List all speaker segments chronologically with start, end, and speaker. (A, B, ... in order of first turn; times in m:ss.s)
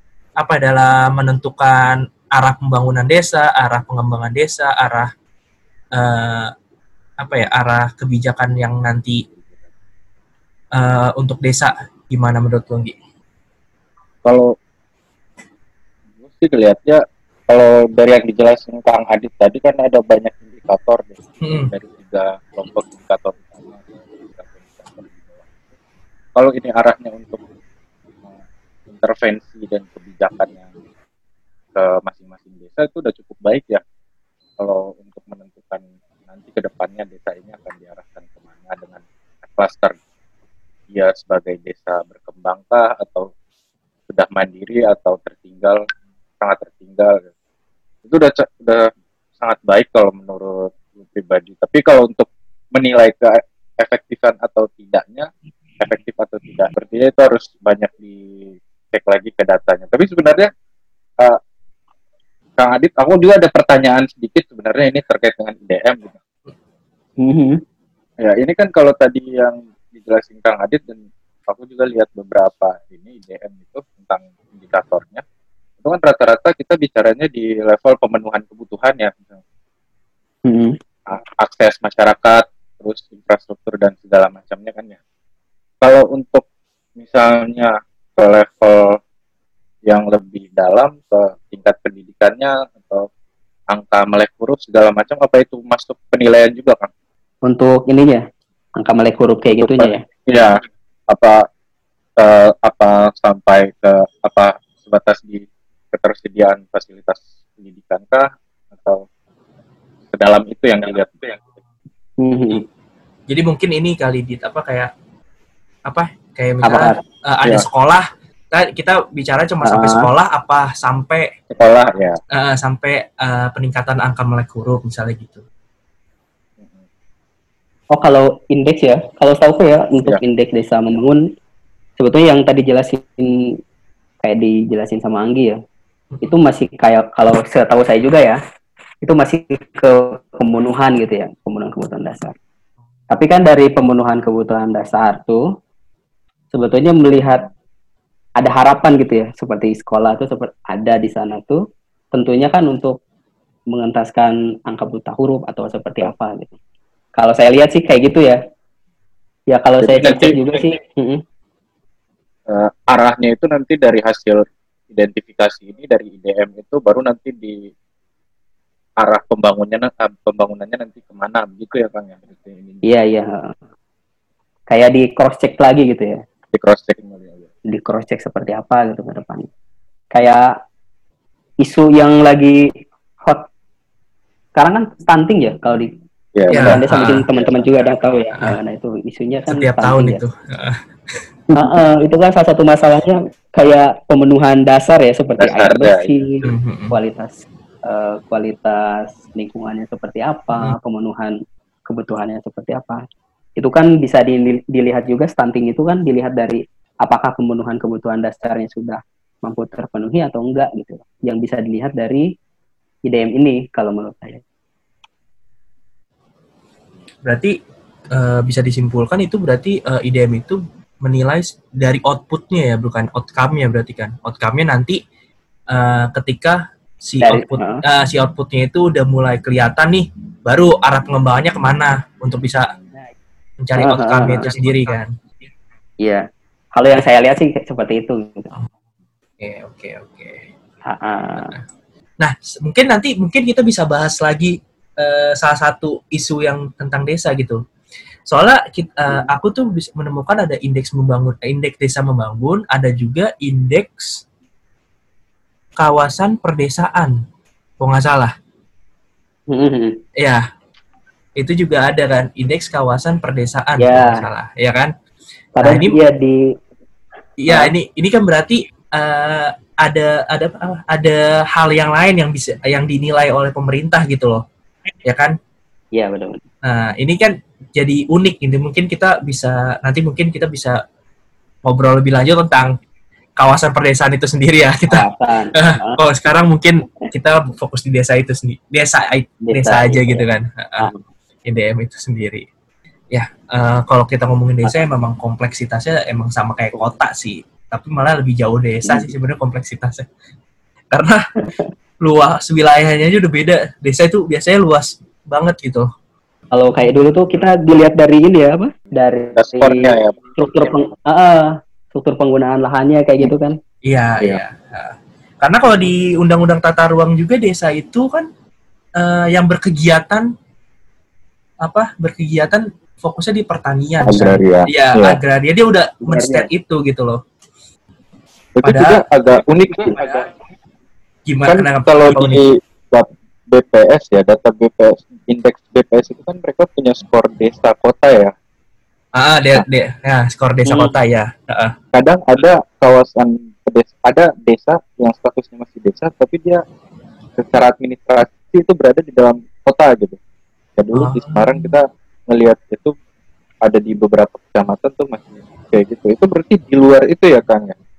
0:00.4-0:05.1 A
0:06.0-0:06.5 A
0:07.2-0:09.2 A
0:10.8-0:13.0 A
0:14.2-0:14.5 B
0:16.2-0:21.2 B
0:21.4-0:21.7 A
0:21.7-0:25.5 B
0:26.4-0:27.4 B
0:28.3-0:30.7 B
0:31.8-0:33.8 B
0:34.6-0:40.0 B
0:40.9-0:43.3 B
0:44.1-0:45.8 B
0:46.4-0:47.3 B
0:48.1-0:48.9 B
0:49.4-0:55.3 B
0:55.8-1:00.5 B
1:02.6-1:06.2 B
1:07.2-1:07.6 C
1:08.2-1:15.2 B
1:15.8-1:19.4 B
1:20.5-1:20.8 C
1:21.1-1:25.0 B
1:25.8-1:26.4 B
1:27.0-1:29.0 B
1:29.9-1:33.1 B
1:33.7-1:36.9 B
1:37.5-1:38.2 C
1:38.8-1:40.0 C
1:39.5-1:40.6 B
1:41.1-1:41.4 B
1:42.2-1:49.0 B
1:50.1-1:51.4 B
1:52.2-1:52.6 C
1:53.3-1:54.9 A
1:55.9-2:01.3 A
1:56.6-1:57.0 C
1:59.6-2:00.1 C
2:01.5-2:02.2 B
2:02.3-2:05.4 A
2:07.9-2:11.2 C
2:12.0-2:13.6 C
2:14.2-2:15.6 C
2:16.2-2:18.4 C
2:19.0-2:22.4 C
2:23.1-2:25.4 C
2:26.5-2:27.5 C
2:28.4-2:31.6 C
2:32.1-2:33.0 C
2:33.7-2:36.5 C
2:37.2-2:38.4 C
2:39.5-2:41.2 C
2:39.8-2:40.4 B
2:42.5-2:47.7 B
2:49.0-2:52.8 B
2:52.9-2:53.6 C
2:54.7-2:56.2 C
2:56.5-2:57.5 B
2:57.7-2:59.5 C
3:00.1-3:00.5 C
3:01.6-3:02.7 C
3:04.6-3:05.9 C
3:06.4-3:06.8 B
3:06.5-3:10.2 C
3:06.5-3:07.3 A
3:09.5-3:10.8 A
3:11.5-3:23.0 C
3:15.4-3:16.3 B
3:16.4-3:17.0 A
3:23.6-3:32.3 C
3:33.0-3:34.4 C
3:37.2-3:37.5 A
3:38.1-3:45.0 A
3:45.7-3:52.7 A
3:47.2-3:47.8 C
3:53.6-3:55.1 A
3:53.8-3:54.5 C
3:56.0-3:58.5 C
3:59.4-4:00.5 A
4:00.9-4:01.6 C
4:02.2-4:07.6 A
4:08.3-4:14.2 A
4:15.8-4:17.2 A
4:17.8-4:18.3 A
4:19.5-4:20.0 C
4:20.2-4:20.4 A
4:21.4-4:24.9 A
4:23.8-4:24.3 C
4:25.6-4:26.4 C
4:25.6-4:26.0 A
4:27.4-4:34.4 A
4:35.0-4:35.4 A
4:36.0-4:36.4 C
4:36.6-4:40.8 A
4:41.6-4:42.8 A
4:43.4-4:50.9 A
4:44.9-4:46.0 C
4:49.4-4:50.2 C
4:51.5-4:52.4 A
4:53.1-5:00.1 A
5:00.9-5:01.2 A
5:02.0-5:05.9 A
5:06.5-5:13.6 C
5:09.4-5:10.2 B
5:13.8-5:18.3 A
5:19.0-5:20.3 A
5:21.6-5:27.2 A
5:24.0-5:25.2 B
5:26.0-5:26.5 C
5:28.6-5:30.3 B
5:28.6-5:29.0 A
5:31.3-5:32.4 A
5:31.5-5:38.3 B
5:39.2-5:41.7 A
5:40.7-5:40.9 C
5:41.9-5:46.6 B
5:47.4-5:50.2 B
5:50.8-5:53.0 B
5:51.0-5:51.7 A
5:53.6-5:57.8 B